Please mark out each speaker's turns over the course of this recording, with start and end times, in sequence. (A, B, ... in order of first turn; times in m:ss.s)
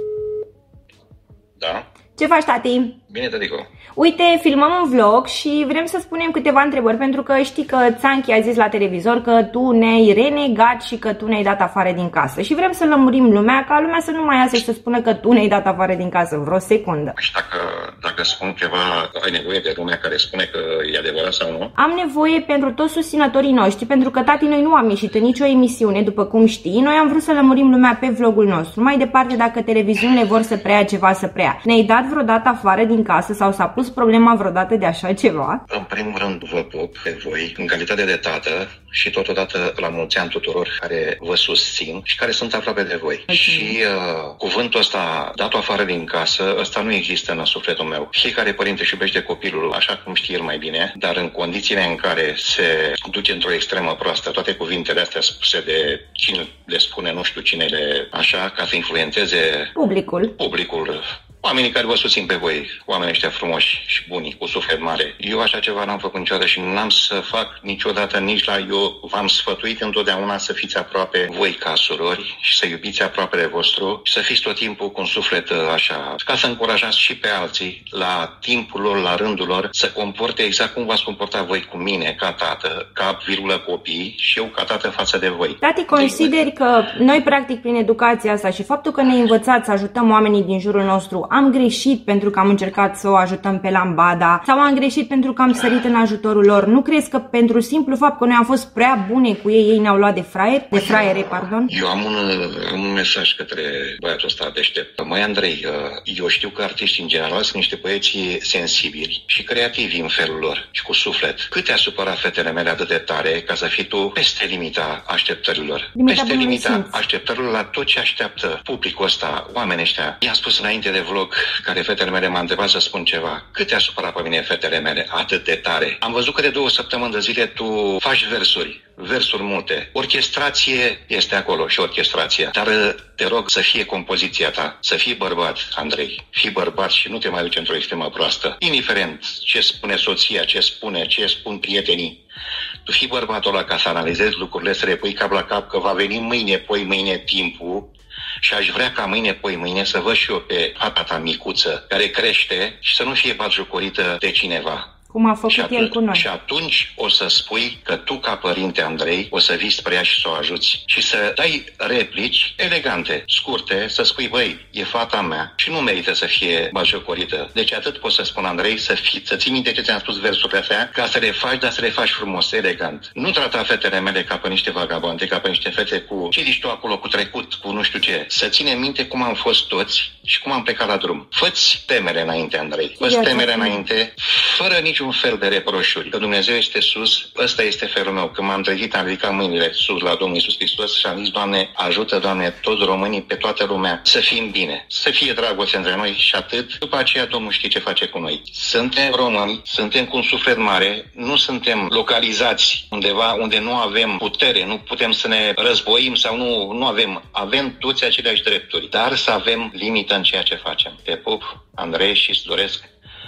0:01.6-0:01.9 A
0:02.2-0:03.0 B
0:03.1-0:03.7 A
0:04.0-0:17.2 B
0:17.2-0:21.7 A
0:21.8-0:35.6 B
0:35.7-0:59.7 A
0:43.3-0:43.8 B
0:59.8-1:00.3 B
1:00.4-1:26.3 A
1:25.6-1:41.7 B
1:40.7-2:22.2 A
1:56.0-1:57.0 B
2:22.8-2:27.9 A
2:28.4-2:34.9 A
2:35.1-2:36.2 B
2:35.5-3:32.9 A
3:03.0-3:03.7 B